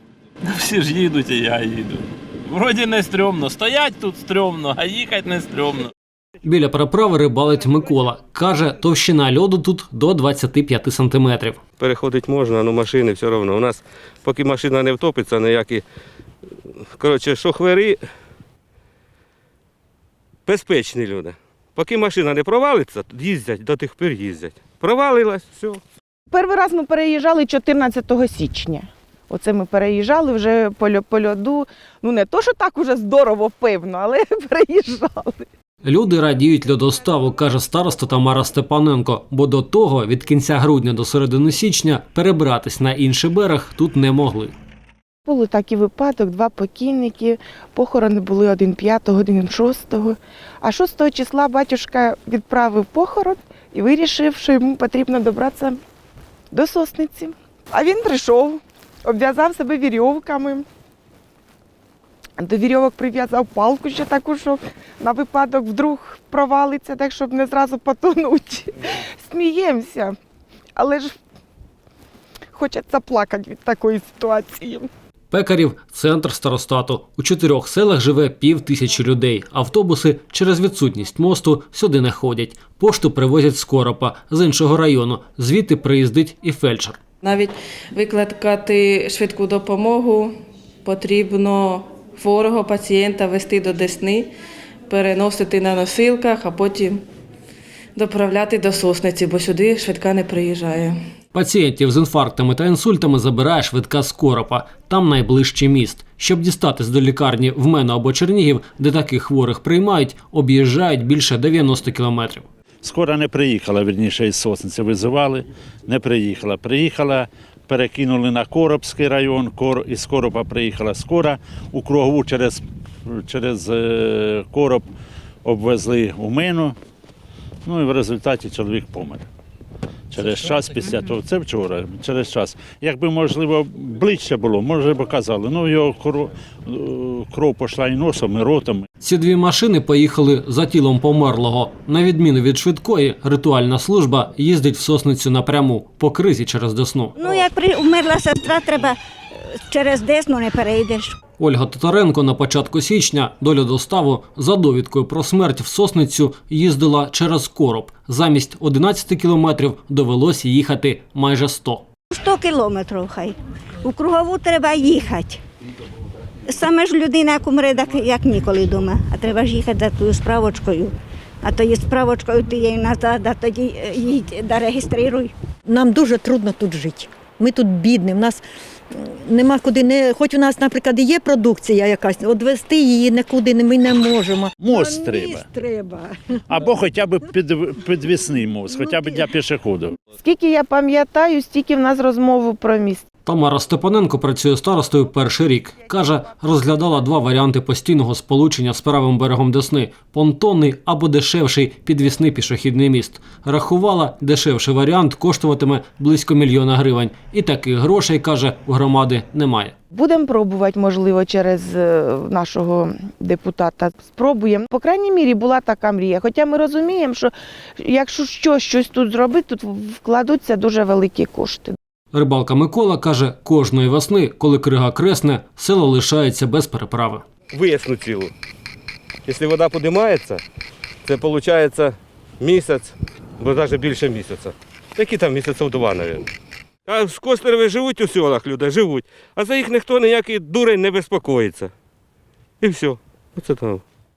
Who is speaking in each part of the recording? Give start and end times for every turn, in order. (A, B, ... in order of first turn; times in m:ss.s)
0:00.4-0:05.9 A
0:06.4-0:11.6 B
0:11.8-0:15.8 C
0:16.9-0:18.0 C
0:20.5-0:25.8 C
0:26.3-0:35.5 D
0:35.8-0:44.5 B
0:45.3-0:55.8 D
0:56.5-1:00.6 D
1:02.4-1:08.7 D
1:09.2-1:10.2 D
1:10.8-1:11.2 D
1:12.5-1:14.9 D
1:15.3-1:27.0 B
1:27.2-1:30.3 E
1:30.8-1:34.3 E
1:34.9-1:37.0 E
1:38.0-1:41.0 E
1:41.3-1:52.5 B
1:52.8-2:04.8 F
2:05.4-2:06.8 F
2:07.6-2:09.3 F
2:10.1-2:18.8 F
2:19.0-2:27.2 B
2:27.2-2:29.0 G
2:29.7-2:31.2 G
2:31.4-2:41.8 B
2:42.1-2:45.4 G
2:46.5-2:55.3 G
2:55.7-2:58.4 H
2:58.9-3:06.1 H
3:04.6-3:05.5 F
3:06.5-3:10.0 F
3:10.2-3:13.0 D
3:13.3-3:29.8 B
3:29.9-3:41.8 D
3:42.1-3:47.2 B
3:47.5-3:48.3 C
3:49.3-3:50.4 C
3:51.0-3:56.3 C
3:56.9-4:01.7 C
4:02.6-4:03.8 C